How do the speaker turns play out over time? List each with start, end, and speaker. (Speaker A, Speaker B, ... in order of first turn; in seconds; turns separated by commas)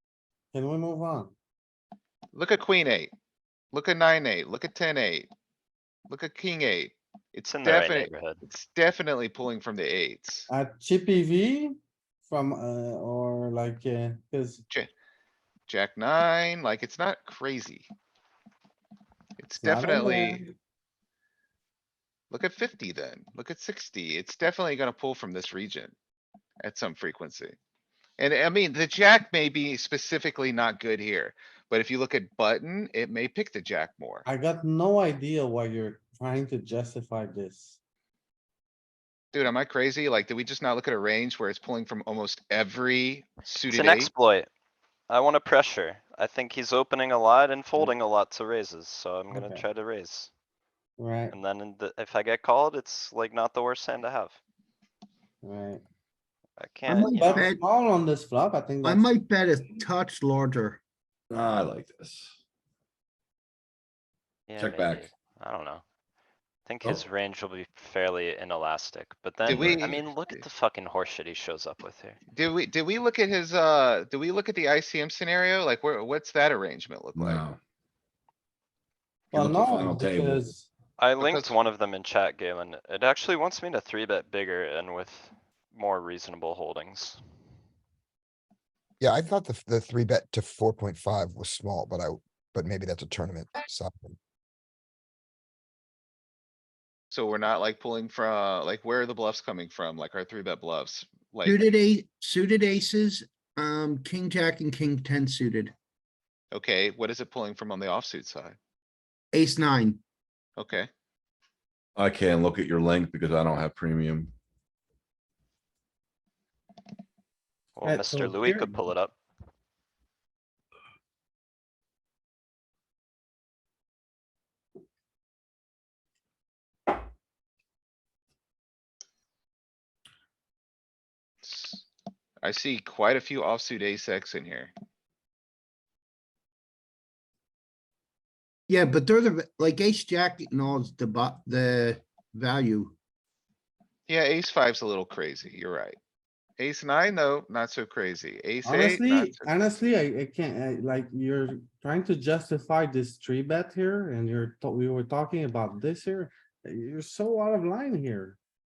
Speaker A: 0.5-1.3, Speaker B: 2.3-3.1, Speaker B: 3.7-5.3, Speaker B: 6.1-10.5, Speaker C: 7.5-8.4, Speaker A: 10.5-14.6, Speaker B: 15.7-17.9, Speaker B: 19.4-20.4, Speaker A: 19.6-20.5, Speaker B: 22.3-25.9, Speaker B: 26.6-27.5, Speaker B: 28.2-34.2, Speaker A: 34.2-37.8, Speaker B: 39.3-44.1, Speaker C: 43.7-44.5, Speaker C: 45.1-50.3, Speaker A: 49.3-49.6, Speaker A: 51.0-51.3, Speaker C: 51.3-54.4, Speaker A: 55.4-55.8, Speaker C: 56.6-57.5, Speaker D: 56.9-57.6, Speaker A: 57.0-59.0, Speaker D: 58.8-60.8, Speaker E: 61.3-62.4, Speaker C: 64.5-65.8, Speaker E: 64.6-65.1, Speaker C: 66.7-72.2, Speaker B: 69.4-70.4, Speaker E: 69.5-69.8, Speaker B: 72.3-77.5, Speaker E: 77.1-77.6, Speaker E: 79.3-80.5, Speaker A: 79.3-80.7, Speaker C: 81.0-87.2, Speaker B: 81.2-81.6, Speaker F: 89.0-94.2, Speaker B: 97.1-101.7, Speaker D: 101.4-105.7, Speaker B: 106.5-108.6, Speaker D: 109.3-110.0, Speaker B: 110.6-110.9, Speaker E: 112.0-114.3, Speaker C: 117.8-119.1, Speaker A: 117.8-118.8, Speaker B: 131.4-131.8, Speaker B: 132.4-134.7, Speaker D: 138.7-142.9, Speaker B: 144.1-146.0, Speaker B: 146.6-149.5, Speaker A: 148.6-158.4